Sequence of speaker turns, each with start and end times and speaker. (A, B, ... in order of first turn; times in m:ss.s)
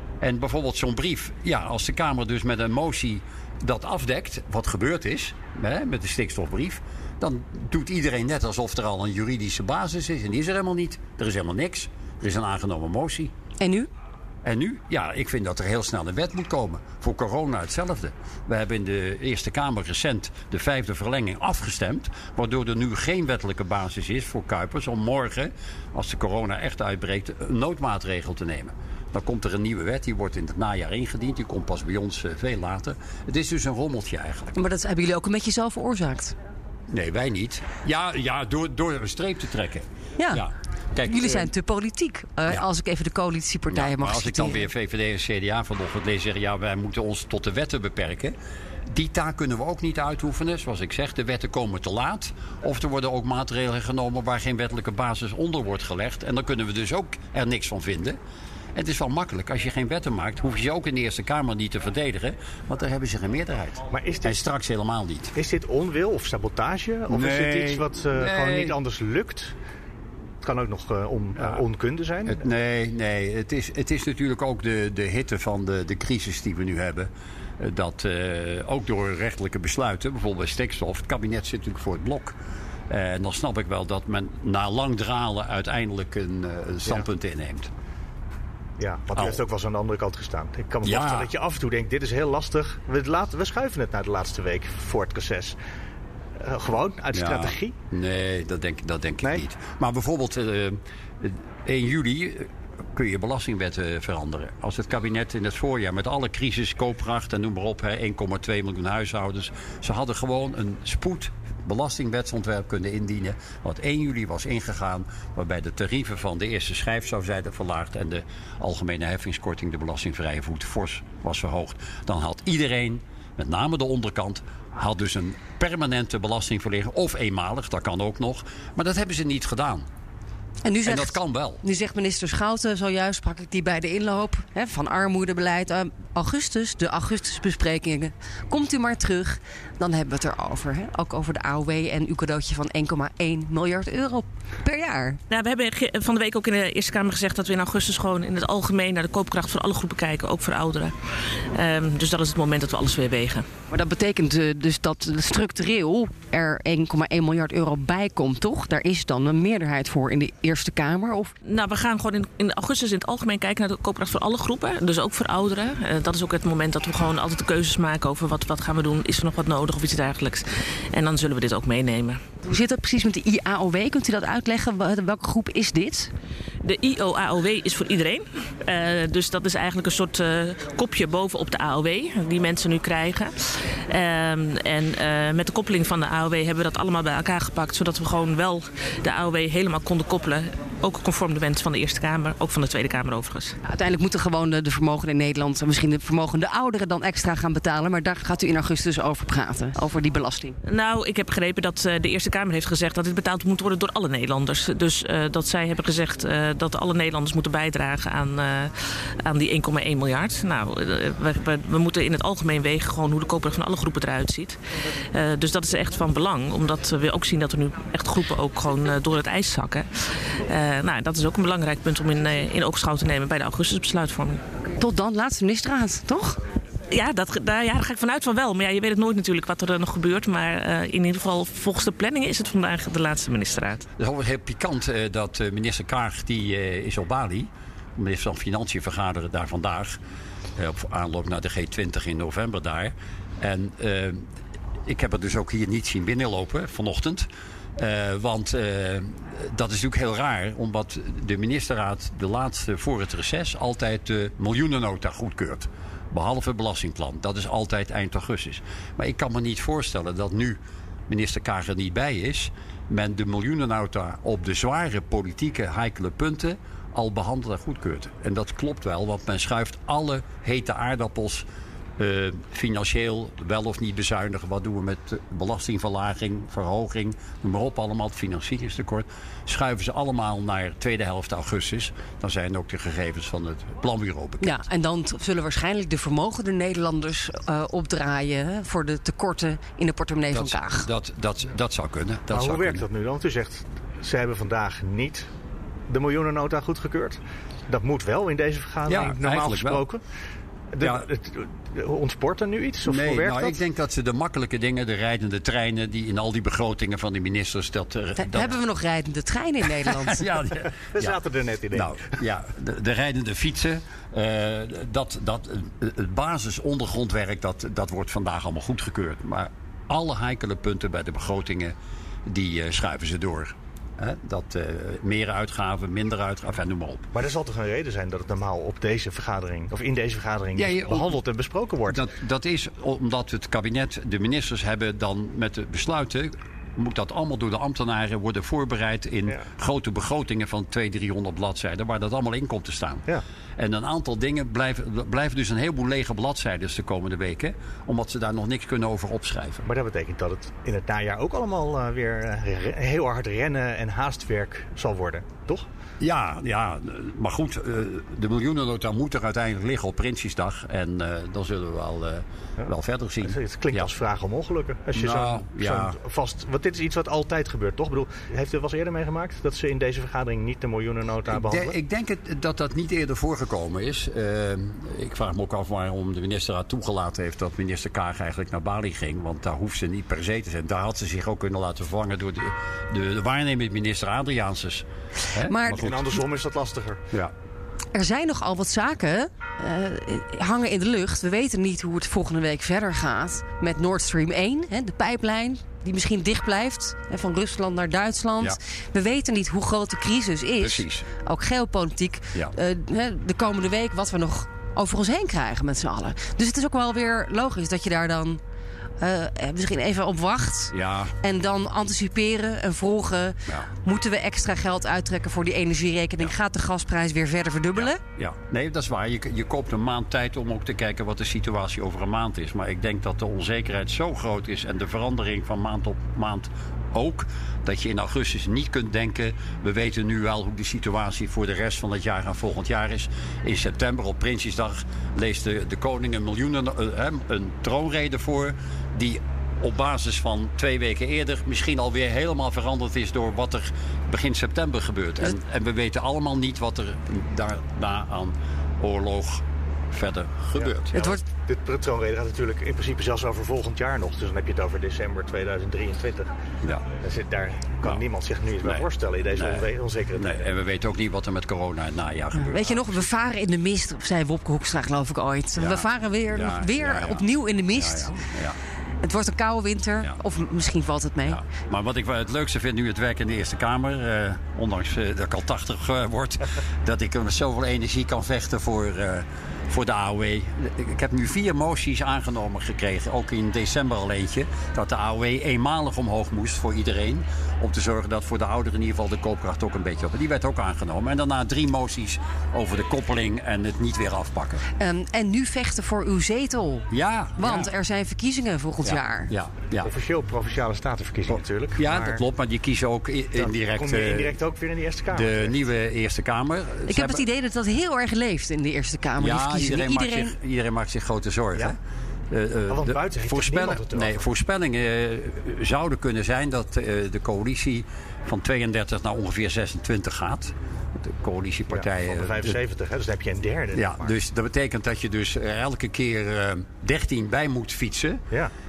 0:00.2-0:13.3 A
0:13.6-0:13.9 B
0:14.4-0:34.6 A
0:34.6-0:36.4 B
0:36.9-0:41.5 A
0:40.2-0:40.4 B
0:41.1-0:44.7 B
0:43.7-0:48.4 A
0:48.9-0:58.2 A
0:58.8-1:05.3 A
1:03.9-1:04.4 C
1:05.4-1:09.6 C
1:07.1-1:08.8 A
1:10.4-1:12.4 C
1:12.3-1:22.4 A
1:22.9-1:27.7 A
1:28.8-1:35.6 C
1:29.2-1:29.4 A
1:30.8-1:31.3 A
1:36.4-1:37.8 C
1:37.1-2:09.9 A
2:10.6-2:25.2 B
2:10.9-2:11.6 A
2:25.3-2:33.5 D
2:33.7-2:41.3 B
2:41.4-2:52.2 D
2:52.4-2:56.1 B
2:56.6-3:13.5 D
3:13.6-3:20.6 B
3:20.7-3:44.4 D
3:44.8-3:46.4 B
3:46.9-3:53.8 D
3:54.0-4:00.0 A
4:00.6-4:04.2 A
4:04.9-4:31.4 A
4:32.0-4:44.6 A
4:44.4-4:50.9 B
4:50.3-4:52.8 A
4:52.3-4:55.3 C
4:55.9-5:00.0 C
4:58.9-4:59.8 A
5:00.7-5:03.6 C
5:02.9-5:08.6 A
5:08.2-5:10.3 B
5:09.9-5:11.2 A
5:10.9-5:12.0 C
5:11.7-5:21.7 A
5:22.3-5:27.0 A
5:27.1-5:32.1 C
5:30.6-5:31.2 A
5:31.9-5:49.6 A
5:49.6-5:55.7 C
5:56.0-6:03.9 A
6:03.2-6:11.8 C
6:04.9-6:06.0 A
6:11.3-6:26.0 A
6:25.4-6:26.0 B
6:25.7-6:27.0 C
6:27.9-6:48.4 B
6:40.6-6:41.1 A
6:49.0-6:58.0 B
6:50.7-6:51.2 A
6:57.8-7:31.0 A
7:30.6-7:36.3 C
7:31.0-7:31.2 B
7:36.6-7:36.9 A
7:37.0-7:40.5 C
7:38.6-7:43.1 A
7:42.4-7:48.1 B
7:45.6-7:48.6 A
7:49.0-7:51.4 B
7:51.3-8:14.6 A
8:14.8-8:16.9 B
8:16.9-8:17.7 A
8:17.4-8:19.3 B
8:18.8-8:19.9 A
8:19.8-8:22.2 C
8:21.3-8:24.4 A
8:23.4-8:25.6 C
8:25.1-8:27.2 A
8:26.9-8:30.3 B
8:29.2-8:31.8 A
8:32.3-8:42.6 A
8:32.7-8:34.3 C
8:41.7-8:44.2 C
8:43.7-8:48.2 A